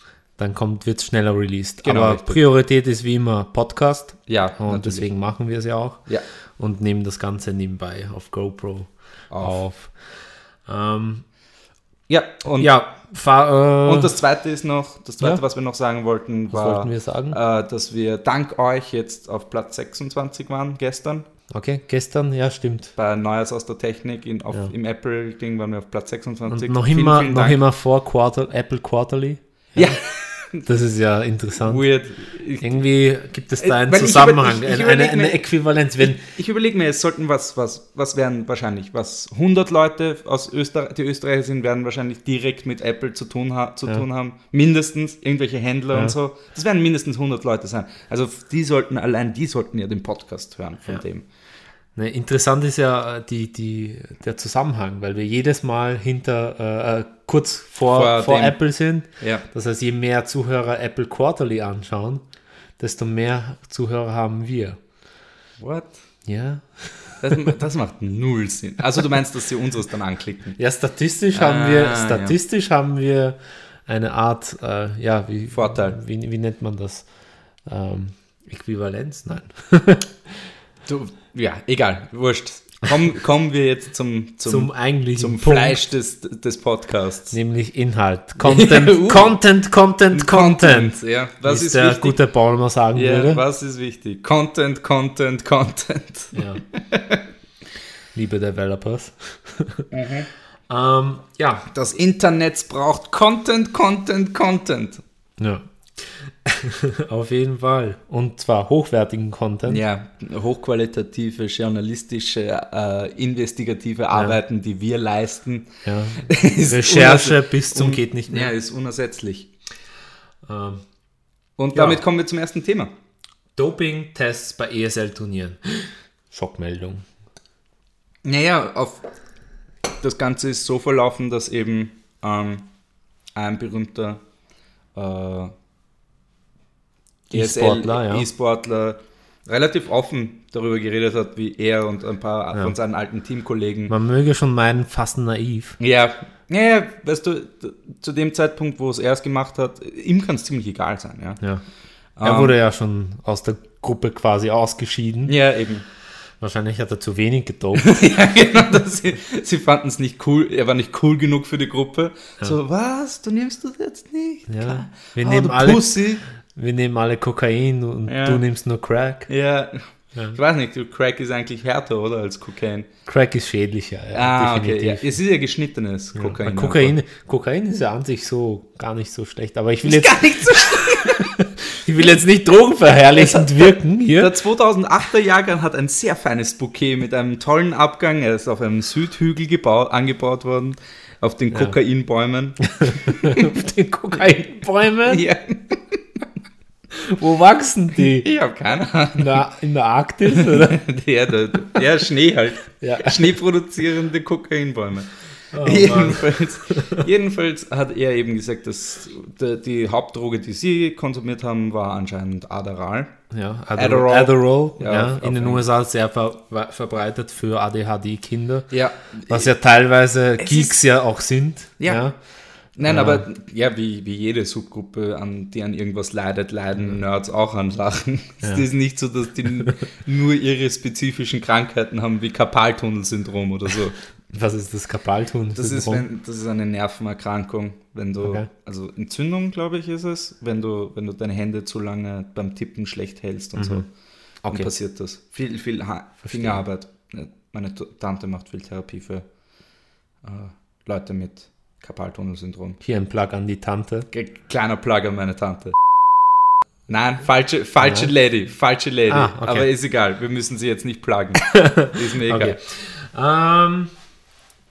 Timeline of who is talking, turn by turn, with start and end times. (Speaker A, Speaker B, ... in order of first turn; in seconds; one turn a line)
Speaker A: 0.4-6.1
Speaker B: 1.8-2.4
Speaker B: 4.3-5.0
Speaker A: 6.6-9.9
Speaker B: 9.3-9.6
Speaker A: 10.7-11.2
Speaker B: 12.1-12.7
Speaker A: 12.6-14.2
Speaker B: 13.8-21.3
Speaker A: 16.5-17.4
Speaker A: 21.5-22.9
Speaker B: 22.9-27.6
Speaker A: 26.5-30.0
Speaker B: 29.8-30.6
Speaker A: 30.6-31.9
Speaker B: 31.6-32.7
Speaker A: 32.6-36.3
Speaker B: 33.6-35.4
Speaker B: 36.0-51.2
Speaker A: 52.0-62.2
Speaker B: 57.9-58.6
Speaker B: 59.2-59.5
Speaker A: 62.8-64.8
Speaker B: 65.6-66.0
Speaker A: 66.2-67.5
Speaker B: 67.2-70.6
Speaker A: 70.6-73.3
Speaker B: 71.3-72.3
Speaker A: 73.9-77.1
Speaker B: 75.5-76.0
Speaker A: 77.7-80.1
Speaker B: 80.9-87.4
Speaker A: 84.5-85.8
Speaker A: 87.3-93.4
Speaker B: 88.4-89.4
Speaker B: 90.1-92.2
Speaker B: 92.9-97.2
Speaker A: 96.3-96.6
Speaker A: 98.1-99.9
Speaker B: 99.9-100.3
Speaker A: 100.7-101.7
Speaker B: 101.7-105.0
Speaker A: 105.4-109.8
Speaker B: 109.7-115.7
Speaker A: 115.8-118.5
Speaker B: 116.2-119.5
Speaker A: 120.5-120.8
Speaker B: 121.6-122.9
Speaker A: 121.7-122.0
Speaker A: 123.5-127.0
Speaker B: 128.2-129.0
Speaker B: 130.0-132.7
Speaker B: 133.3-134.2
Speaker B: 134.9-135.5
Speaker B: 137.3-143.9
Speaker A: 137.3-138.2
Speaker A: 143.9-145.8
Speaker B: 145.8-151.4
Speaker B: 152.2-152.5
Speaker A: 152.2-155.3
Speaker B: 155.3-155.8
Speaker A: 156.4-157.9
Speaker B: 157.8-166.2
Speaker A: 164.5-166.0
Speaker A: 166.5-169.3
Speaker B: 168.1-168.4
Speaker B: 169.3-169.8
Speaker B: 170.3-172.9
Speaker A: 173.1-175.1
Speaker B: 174.1-176.9
Speaker A: 176.1-184.3
Speaker B: 179.8-181.4
Speaker B: 183.1-193.6
Speaker A: 192.7-195.2
Speaker B: 195.1-196.2
Speaker A: 196.9-198.3
Speaker B: 198.0-199.4
Speaker A: 199.2-200.8
Speaker B: 200.2-213.2
Speaker A: 202.8-203.3
Speaker A: 205.5-207.0
Speaker A: 213.3-218.7
Speaker B: 213.7-215.6
Speaker B: 218.7-219.5
Speaker A: 219.3-222.2
Speaker B: 220.4-220.8
Speaker B: 222.8-233.9
Speaker A: 222.8-223.2
Speaker A: 234.3-236.0
Speaker B: 235.6-243.9
Speaker A: 243.6-243.8
Speaker A: 244.4-244.7
Speaker B: 244.5-249.2
Speaker A: 246.2-246.6
Speaker B: 250.2-252.8
Speaker A: 252.8-254.1
Speaker B: 254.1-255.8
Speaker B: 256.9-262.6
Speaker A: 257.8-258.1
Speaker A: 259.1-259.7
Speaker A: 261.4-263.9